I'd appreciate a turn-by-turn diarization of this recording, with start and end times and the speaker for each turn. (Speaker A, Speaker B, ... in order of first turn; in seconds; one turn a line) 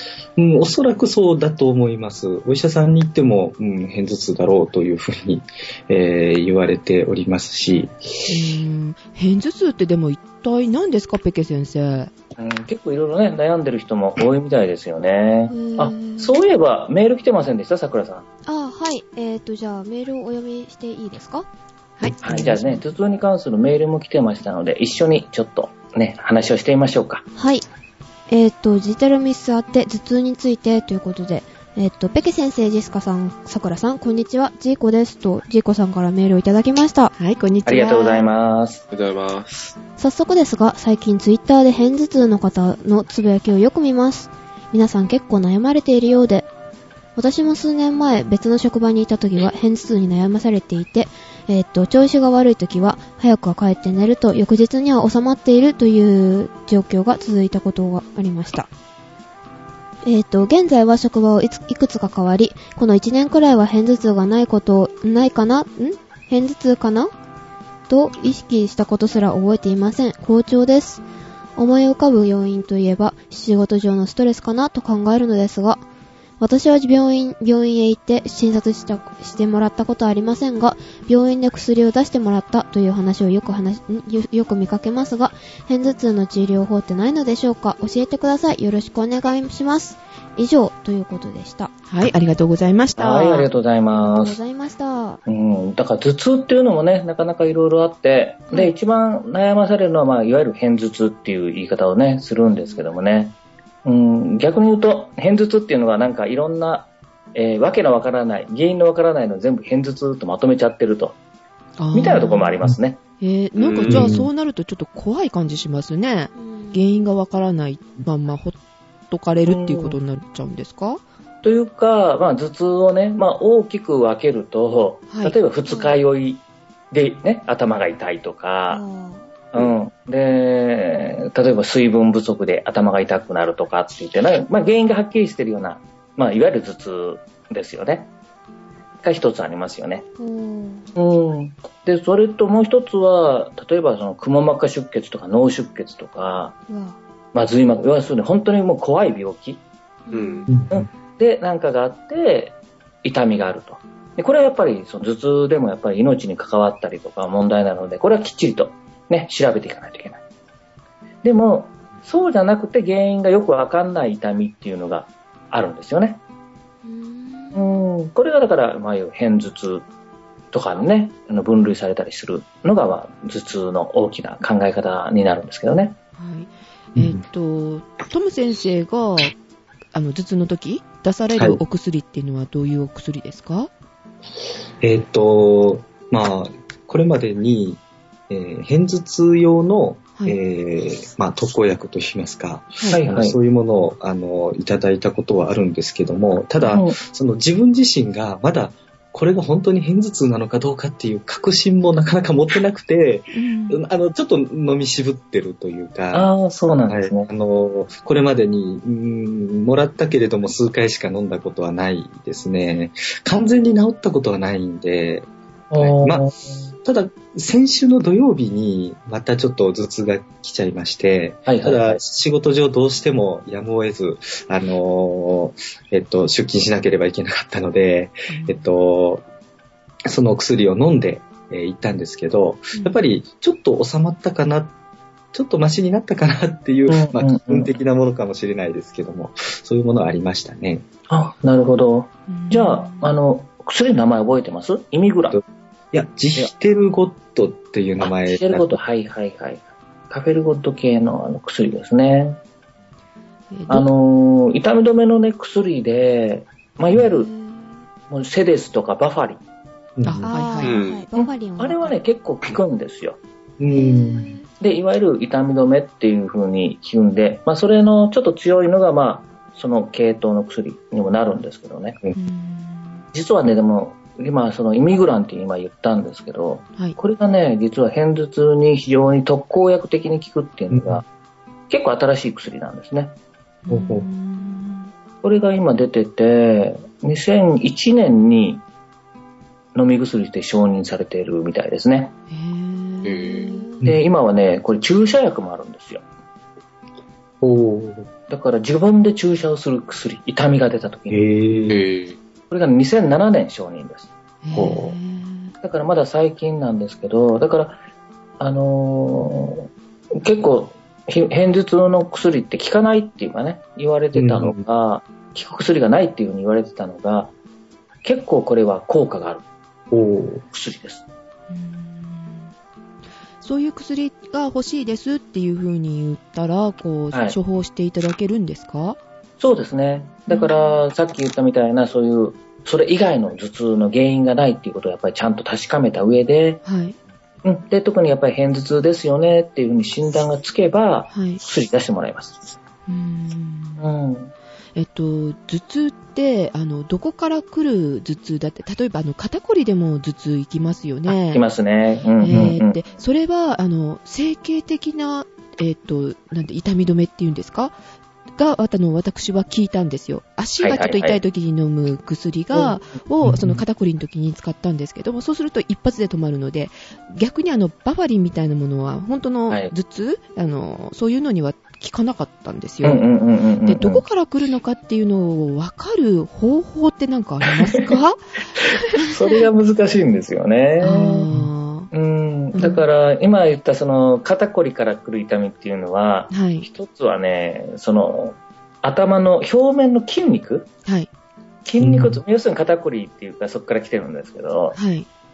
Speaker A: 0.4-8.3
Speaker B: 8.3-12.1
Speaker C: 12.4-18.2
Speaker D: 15.5-16.4
Speaker D: 18.5-21.5
Speaker B: 22.0-22.8
Speaker C: 22.2-27.2
Speaker D: 27.4-27.7
Speaker D: 28.3-37.1
Speaker B: 37.2-38.2
Speaker C: 37.7-38.8
Speaker E: 38.9-39.8
Speaker D: 40.0-46.5
Speaker D: 47.2-58.7
Speaker D: 60.0-67.1
Speaker D: 67.9-71.0
Speaker D: 71.6-75.8
Speaker D: 76.4-91.7
Speaker B: 91.9-93.5
Speaker C: 93.0-94.4
Speaker D: 93.9-95.2
Speaker C: 95.3-111.2
Speaker D: 102.5-102.9
Speaker B: 111.8-112.6
Speaker C: 111.9-113.0
Speaker B: 113.2-118.6
Speaker E: 113.5-114.1
Speaker A: 113.9-114.3
Speaker D: 116.4-116.8
Speaker B: 119.1-121.0
Speaker C: 119.5-120.0
Speaker C: 121.4-128.8
Speaker B: 125.1-125.4
Speaker D: 125.7-126.0
Speaker D: 128.7-129.3
Speaker C: 129.5-138.1
Speaker C: 139.0-140.1
Speaker D: 140.2-140.9
Speaker C: 141.0-146.6
Speaker D: 146.7-147.0
Speaker C: 147.3-149.6
Speaker D: 150.1-150.6
Speaker E: 150.1-150.5
Speaker A: 150.5-150.9
Speaker C: 150.7-160.2
Speaker C: 161.2-166.2
Speaker D: 166.8-167.8
Speaker C: 167.6-169.9
Speaker C: 170.5-176.0
Speaker B: 176.2-179.3
Speaker A: 177.0-177.2
Speaker B: 179.9-183.7
Speaker A: 184.8-206.3
Speaker C: 192.9-193.4
Speaker C: 196.6-197.0
Speaker B: 203.3-203.8
Speaker C: 206.1-207.3
Speaker A: 206.9-216.3
Speaker C: 215.7-216.6
Speaker A: 216.8-229.2
Speaker C: 221.5-222.0
Speaker B: 228.3-228.7
Speaker A: 230.1-234.7
Speaker A: 235.3-240.9
Speaker C: 236.9-237.8
Speaker C: 241.1-245.4
Speaker B: 242.3-243.1
Speaker A: 245.3-248.8
Speaker C: 248.0-252.4
Speaker B: 253.5-253.9
Speaker C: 253.7-257.3
Speaker D: 257.0-257.6
Speaker C: 258.1-259.4
Speaker A: 260.0-260.2
Speaker B: 260.1-260.8
Speaker D: 260.2-262.0
Speaker E: 260.6-261.1
Speaker C: 261.2-263.2
Speaker A: 263.6-264.4
Speaker D: 263.7-264.5
Speaker C: 264.6-272.0
Speaker B: 272.2-273.1
Speaker C: 273.1-281.1
Speaker A: 280.7-281.0
Speaker C: 281.7-283.1
Speaker B: 283.7-284.9
Speaker A: 283.7-284.1
Speaker C: 285.2-288.6
Speaker C: 289.8-292.1
Speaker B: 292.3-293.6
Speaker E: 293.1-293.5
Speaker D: 293.3-293.8
Speaker C: 293.9-296.0
Speaker A: 297.4-298.1
Speaker C: 298.3-301.2
Speaker A: 301.1-301.9
Speaker E: 301.7-302.2
Speaker C: 302.5-304.1
Speaker B: 304.4-305.5
Speaker A: 304.5-305.0
Speaker C: 305.6-307.8
Speaker C: 308.4-317.3
Speaker A: 314.1-314.6
Speaker C: 318.0-319.4
Speaker A: 319.9-320.4
Speaker C: 320.5-321.0
Speaker B: 321.5-322.5
Speaker B: 323.4-329.0
Speaker C: 329.4-336.6
Speaker B: 330.3-330.5
Speaker B: 336.6-337.0
Speaker C: 337.4-342.4
Speaker B: 341.1-341.4
Speaker B: 342.9-343.9
Speaker C: 343.8-344.3
Speaker B: 344.8-351.4
Speaker C: 351.3-353.0
Speaker B: 352.2-357.8
Speaker B: 358.4-373.0
Speaker C: 360.6-361.2
Speaker A: 363.2-363.6
Speaker C: 372.8-374.0
Speaker B: 373.7-379.0
Speaker C: 377.6-377.9
Speaker C: 378.9-381.3
Speaker B: 380.8-381.9
Speaker C: 381.9-390.7
Speaker B: 382.5-382.9
Speaker B: 386.3-386.7
Speaker C: 391.6-394.8
Speaker A: 391.8-392.2
Speaker B: 394.8-395.1